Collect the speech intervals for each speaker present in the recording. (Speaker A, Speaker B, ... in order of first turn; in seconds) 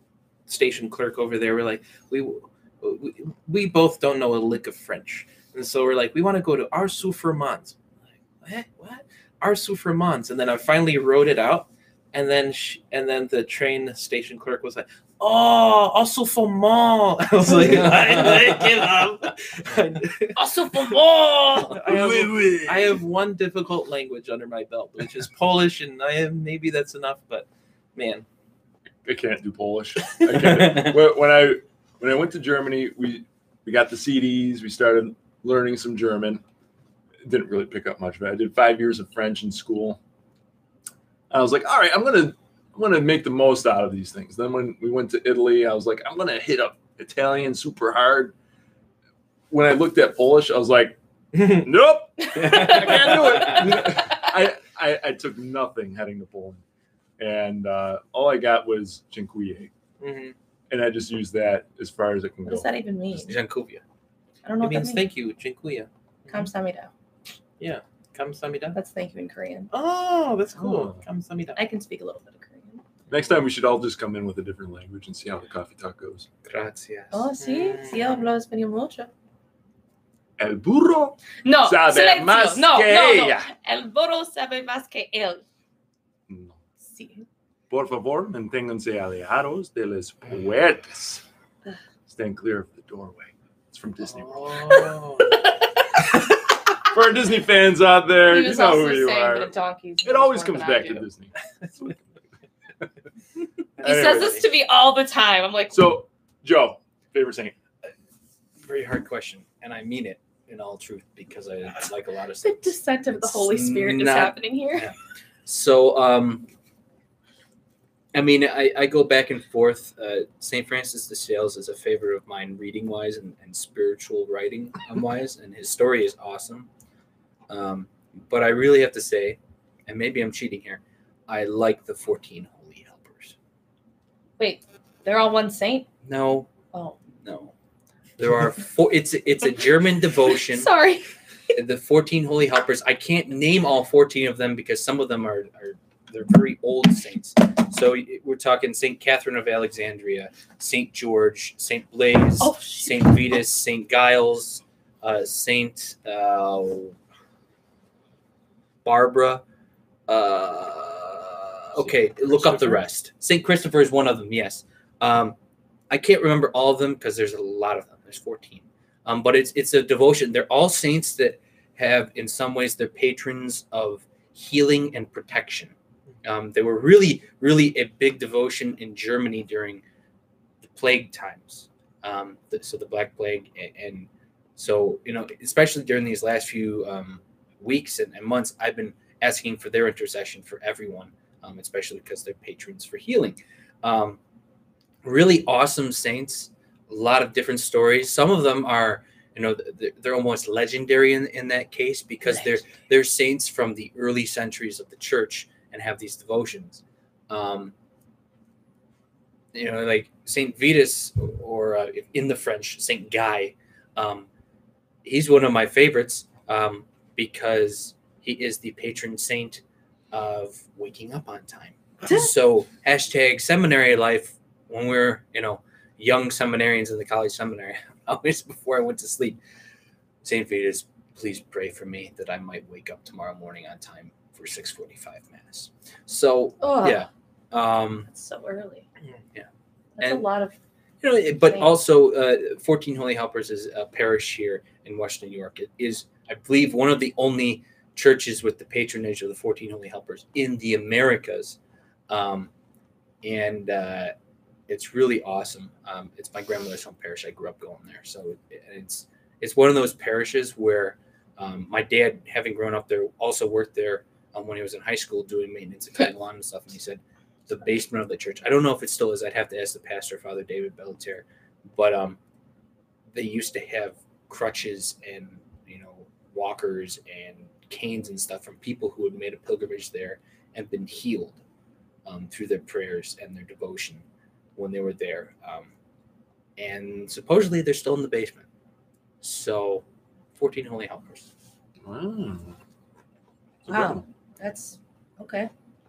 Speaker A: 0.5-7.8, 8.4-20.4, 21.7-28.2, 51.3-51.7, 52.4-53.5, 60.0-60.4, 64.6-66.5, 67.6-68.8, 69.7-71.6, 77.4-78.3, 94.0-95.4, 101.6-101.9, 103.8-104.4
Speaker B: 17.6-18.7, 20.4-21.8, 30.4-30.9, 63.1-63.8, 76.4-77.3, 108.6-114.9, 115.4-116.5, 118.1-126.7, 127.5-133.4, 136.0-136.5, 137.2-137.5, 138.2-140.7, 141.5-156.9, 158.8-159.4, 160.1-165.4, 165.9-179.8, 180.6-194.2, 195.0-207.7, 209.5-214.3, 215.0-229.4, 230.2-238.1, 240.0-240.3, 241.0-251.6, 252.1-252.5, 253.2-254.1, 254.7-272.2, 273.1-281.4, 282.1-284.0, 284.6-285.7, 286.6-288.4, 289.2-291.3
Speaker C: 20.7-21.0, 52.3-53.1, 62.5-63.4, 64.4-65.1, 66.3-66.9, 68.7-69.7, 71.5-72.8, 77.1-79.1, 81.4-85.4, 86.8-87.2, 94.7-95.3, 98.2-101.1, 103.8-105.9, 112.4-114.9, 134.4-135.9, 136.7-137.0, 140.3-141.1, 152.4-153.2, 202.3-202.5, 236.6-237.1, 238.1-238.8, 240.0-240.6, 241.4-241.7, 293.7-295.5
Speaker D: 21.7-23.0, 29.0-36.4, 37.2-40.0, 41.3-48.4, 49.5-56.6, 57.2-59.7, 60.7-62.7, 70.6-71.0, 73.1-76.3, 80.4-83.5, 86.3-86.6, 87.7-91.2, 92.1-94.9, 96.8-101.9, 103.8-104.4, 105.7-107.5, 291.8-292.6, 293.6-294.0